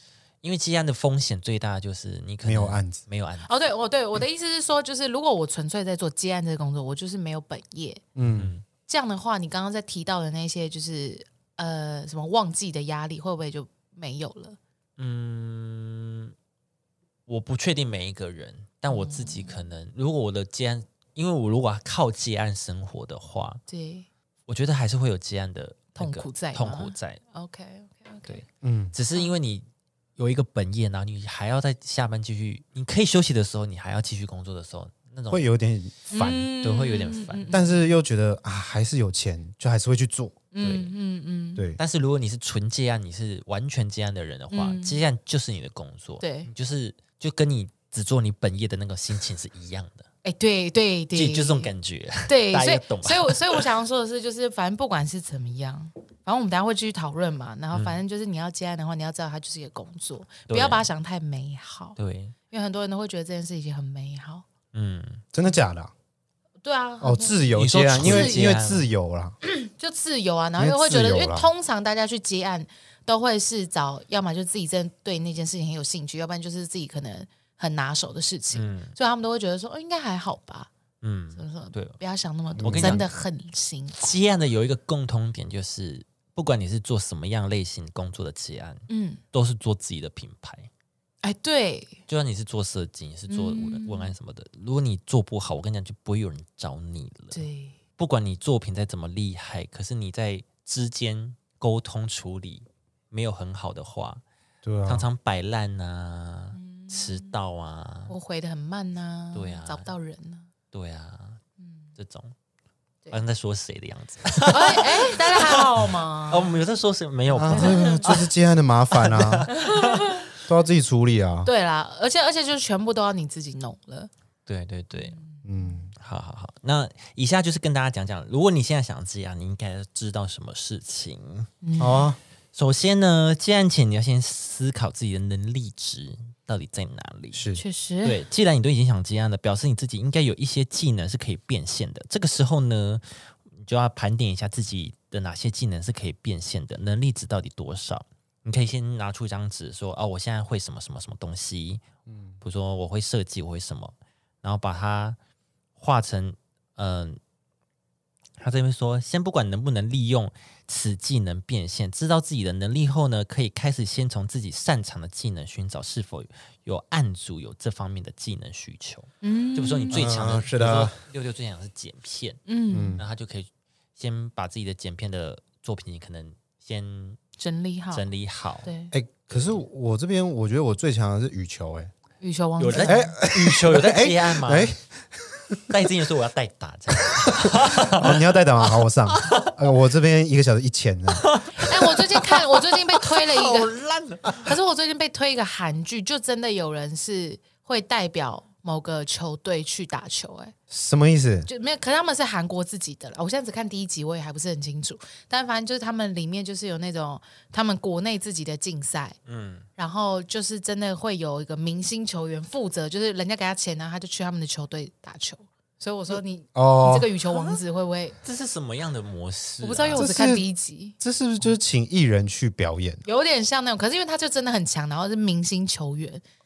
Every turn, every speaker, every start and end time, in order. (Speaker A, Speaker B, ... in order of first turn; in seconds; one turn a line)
Speaker A: 0.4-3.5
Speaker B: 2.4-3.0
Speaker C: 3.4-8.0
Speaker B: 8.2-8.5
Speaker A: 8.2-8.6
Speaker C: 8.9-14.6
Speaker A: 15.0-16.3
Speaker A: 17.3-23.6
Speaker C: 18.9-19.6
Speaker C: 23.7-24.1
Speaker A: 24.5-27.2
Speaker C: 26.0-28.4
Speaker A: 28.3-29.6
Speaker B: 28.6-28.9
Speaker A: 30.2-35.5
Speaker B: 35.3-36.6
Speaker C: 36.1-38.0
Speaker A: 36.1-37.5
Speaker B: 37.5-40.4
Speaker C: 40.5-41.7
Speaker A: 40.6-40.9
Speaker A: 41.8-50.1
Speaker C: 44.5-45.0
Speaker C: 46.2-46.5
Speaker C: 50.2-51.7
Speaker A: 51.1-53.6
Speaker C: 52.3-62.0
Speaker A: 57.7-58.0
Speaker A: 60.5-60.9
Speaker A: 62.0-62.3
Speaker C: 62.5-64.4
Speaker A: 64.7-65.2
Speaker B: 65.3-65.9
Speaker C: 66.6-68.5
Speaker B: 67.0-69.4
Speaker A: 67.5-68.9
Speaker C: 69.4-80.7
Speaker B: 70.6-71.5
Speaker A: 78.5-78.9
Speaker A: 81.0-82.0
Speaker C: 81.4-84.1
Speaker B: 82.6-83.1
Speaker A: 82.6-83.1
Speaker A: 84.0-90.7
Speaker C: 88.9-89.2
Speaker C: 91.2-92.0
Speaker A: 92.1-97.4
Speaker C: 93.3-94.1
Speaker C: 97.3-97.8
Speaker A: 98.0-104.2
Speaker B: 104.6-105.0
Speaker A: 104.8-108.1
Speaker C: 106.5-107.3
Speaker C: 108.1-110.5
Speaker A: 109.3-109.9
Speaker A: 110.7-111.4
Speaker C: 111.6-111.9
Speaker A: 112.0-112.3
Speaker A: 113.1-118.3
Speaker C: 114.5-116.5
Speaker B: 117.4-119.5
Speaker C: 117.4-118.1
Speaker A: 118.9-120.3
Speaker C: 119.5-120.2
Speaker B: 120.4-121.5
Speaker C: 121.4-124.1
Speaker A: 124.5-125.2
Speaker C: 124.9-125.8
Speaker B: 125.4-125.9
Speaker A: 126.0-131.5
Speaker C: 131.6-132.1
Speaker B: 131.8-132.2
Speaker A: 132.5-137.4
Speaker B: 137.3-137.6
Speaker C: 137.6-138.2
Speaker A: 138.0-151.8
Speaker B: 152.1-152.3
Speaker A: 152.4-155.2
Speaker A: 155.8-157.2
Speaker A: 158.4-172.4
Speaker C: 169.2-170.1
Speaker B: 169.9-171.0
Speaker C: 172.5-173.0
Speaker B: 172.7-173.0
Speaker A: 172.9-177.2
Speaker C: 177.4-178.0
Speaker A: 177.9-178.7
Speaker C: 178.6-178.9
Speaker B: 178.9-181.9
Speaker A: 179.3-179.6
Speaker C: 182.2-183.1
Speaker A: 182.6-184.7
Speaker B: 182.8-185.7
Speaker A: 185.7-188.2
Speaker B: 187.2-191.3
Speaker A: 189.1-189.6
Speaker A: 191.1-194.5
Speaker C: 191.6-193.7
Speaker C: 194.3-200.5
Speaker B: 200.7-201.5
Speaker C: 201.5-209.2
Speaker A: 209.2-209.7
Speaker C: 209.8-218.2
Speaker B: 216.5-217.1
Speaker A: 218.2-220.1
Speaker C: 219.6-221.0
Speaker B: 219.9-220.4
Speaker B: 221.0-223.0
Speaker C: 223.0-226.2